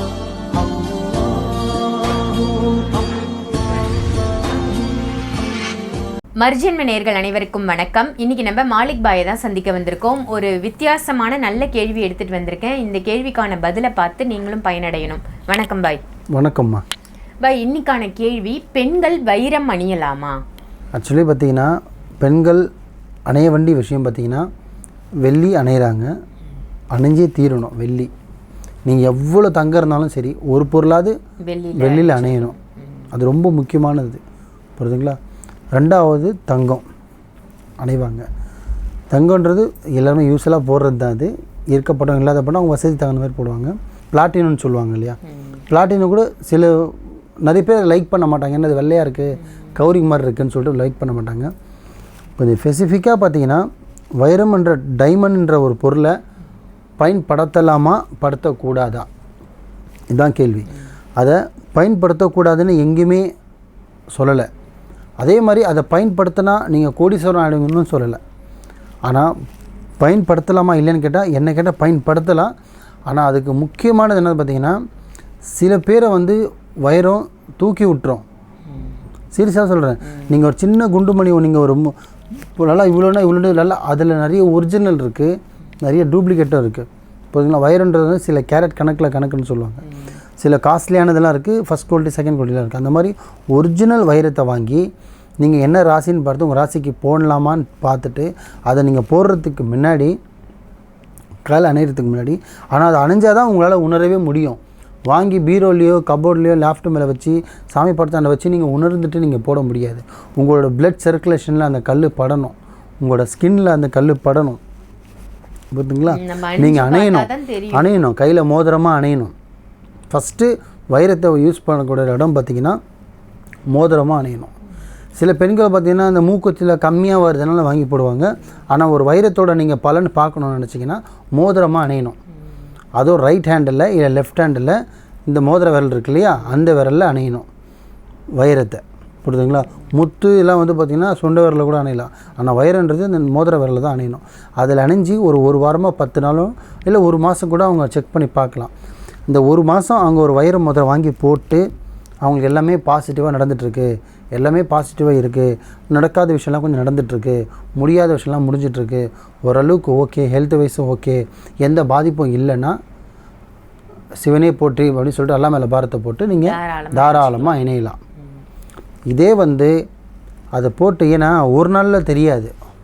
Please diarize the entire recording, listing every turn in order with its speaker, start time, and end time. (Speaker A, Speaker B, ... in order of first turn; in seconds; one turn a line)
Speaker A: 6.4-16.0
Speaker B: 16.3-16.8
Speaker A: 17.4-20.4
Speaker B: 20.9-22.6
Speaker B: 23.3-24.5
Speaker B: 25.2-26.1
Speaker B: 26.9-28.1
Speaker B: 28.9-31.1
Speaker A: 31.4-32.6
Speaker B: 31.8-32.5
Speaker B: 33.1-34.2
Speaker B: 34.8-35.2
Speaker B: 35.7-36.8
Speaker B: 37.8-38.2
Speaker B: 39.1-45.2
Speaker A: 45.3-45.6
Speaker B: 45.7-51.5
Speaker B: 52.4-53.6
Speaker B: 54.2-56.1
Speaker B: 57.0-59.1
Speaker B: 60.1-63.3
Speaker B: 64.1-64.5
Speaker B: 65.2-68.2
Speaker B: 69.1-69.3
Speaker B: 70.0-72.5
Speaker B: 73.1-74.8
Speaker B: 75.5-78.2
Speaker B: 79.3-89.8
Speaker B: 90.4-94.9
Speaker B: 95.4-100.2
Speaker B: 101.5-114.6
Speaker B: 115.7-119.3
Speaker A: 116.1-117.9
Speaker B: 120.1-122.8
Speaker B: 123.7-124.5
Speaker B: 125.2-132.2
Speaker B: 133.0-137.5
Speaker B: 138.4-148.7
Speaker B: 149.3-151.6
Speaker B: 152.2-162.8
Speaker B: 164.2-168.0
Speaker A: 166.3-167.7
Speaker B: 169.1-169.7
Speaker B: 170.6-172.5